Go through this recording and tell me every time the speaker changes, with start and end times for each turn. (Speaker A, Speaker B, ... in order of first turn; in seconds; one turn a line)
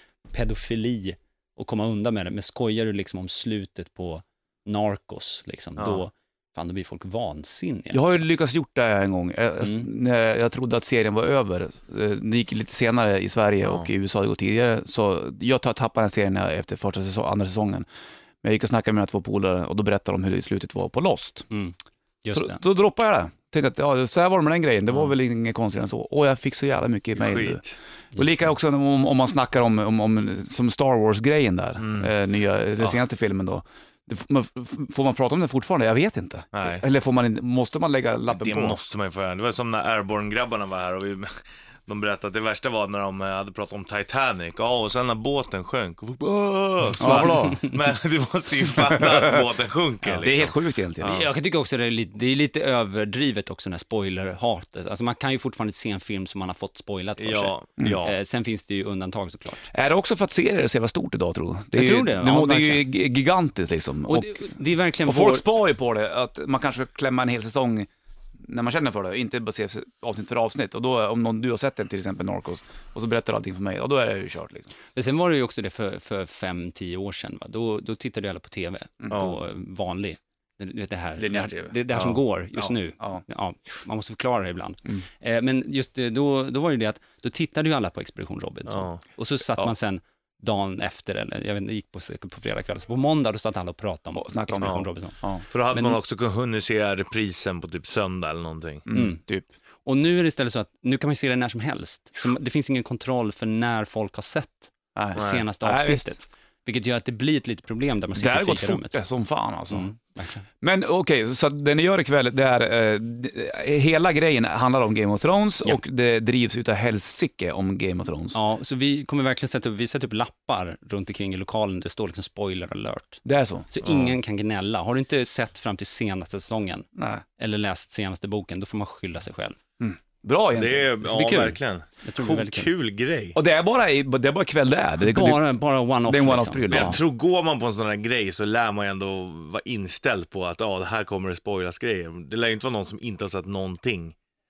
Speaker A: 0.3-8.2
Speaker B: 7.9-17.9
Speaker B: 18.4-21.5
Speaker A: 21.5-22.6
Speaker B: 22.3-27.6
Speaker C: 27.2-27.8
Speaker B: 28.2-38.8
Speaker C: 31.8-32.1
Speaker C: 36.5-36.8
Speaker C: 38.3-50.5
Speaker B: 47.0-47.6
Speaker A: 47.0-47.7
Speaker B: 48.9-49.5
Speaker B: 50.2-51.3
Speaker A: 51.0-59.6
Speaker C: 57.2-58.1
Speaker B: 59.7-67.9
Speaker A: 61.7-62.9
Speaker A: 64.1-65.4
Speaker B: 68.4-74.7
Speaker A: 75.0-95.2
Speaker C: 79.1-79.4
Speaker B: 81.2-81.7
Speaker B: 82.6-83.2
Speaker C: 88.7-89.0
Speaker B: 94.2-95.4
Speaker C: 95.5-98.8
Speaker A: 95.7-96.0
Speaker B: 98.9-99.5
Speaker A: 98.9-99.2
Speaker A: 99.8-108.9
Speaker B: 105.0-106.1
Speaker C: 105.2-105.4
Speaker B: 108.1-109.9
Speaker A: 109.7-110.5
Speaker B: 110.6-118.4
Speaker A: 118.3-123.2
Speaker B: 123.2-123.7
Speaker A: 123.7-126.9
Speaker C: 123.8-124.2
Speaker B: 127.0-127.2
Speaker A: 127.4-129.6
Speaker B: 129.8-131.0
Speaker C: 130.6-133.4
Speaker A: 131.0-132.7
Speaker B: 133.3-135.4
Speaker A: 135.0-137.0
Speaker B: 136.1-137.0
Speaker C: 136.7-144.2